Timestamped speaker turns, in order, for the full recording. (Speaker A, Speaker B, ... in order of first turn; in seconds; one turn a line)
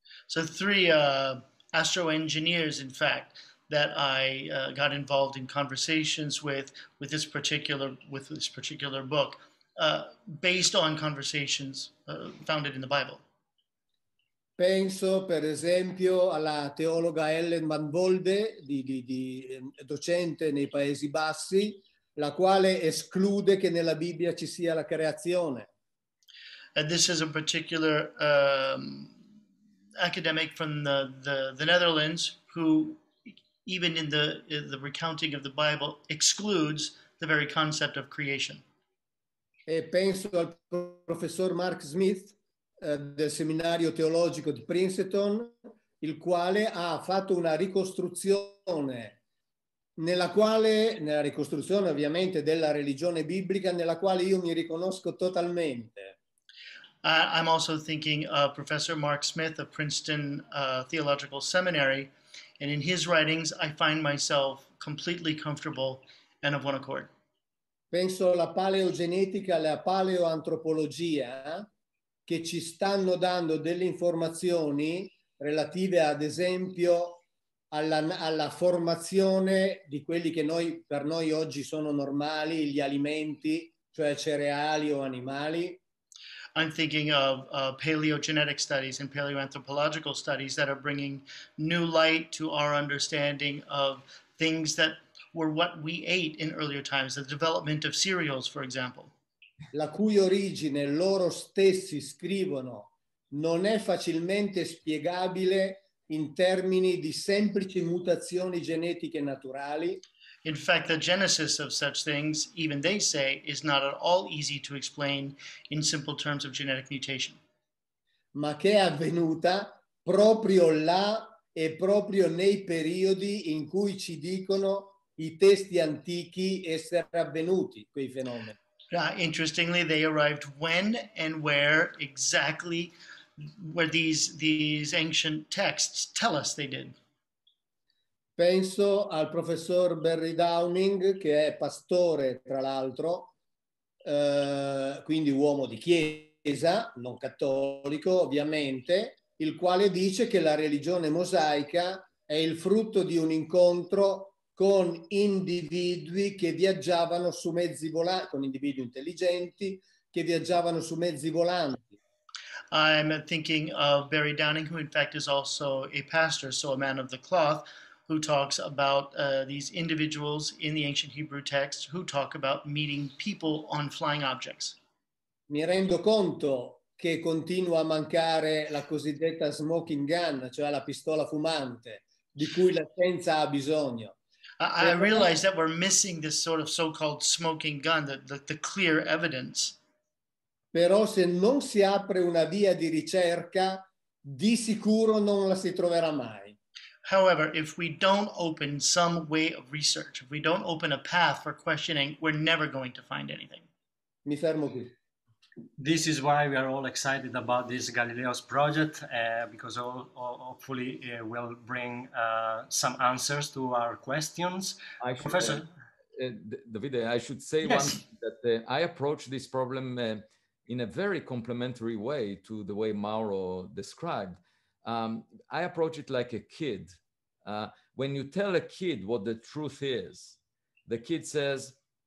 Speaker A: 0.3-13.2
Speaker B: 14.6-25.7
Speaker A: 26.8-29.1
Speaker A: 30.0-33.1
Speaker A: 33.6-38.6
Speaker B: 39.7-49.2
Speaker B: 50.0-56.1
Speaker A: 57.0-67.1
Speaker B: 67.9-71.7
Speaker B: 72.3-77.2
Speaker B: 77.7-85.8
Speaker A: 86.6-99.1
Speaker B: 99.7-110.0
Speaker A: 110.5-117.4
Speaker B: 118.3-128.6
Speaker A: 128.9-132.9
Speaker A: 133.6-136.9
Speaker B: 138.4-143.3
Speaker B: 144.0-161.9
Speaker A: 162.7-174.8
Speaker B: 175.5-184.2
Speaker A: 184.6-189.8
Speaker B: 184.8-185.3
Speaker B: 190.7-196.6
Speaker A: 197.1-203.7
Speaker B: 204.3-204.9
Speaker C: 205.8-215.7
Speaker D: 215.0-231.8
Speaker C: 217.6-218.0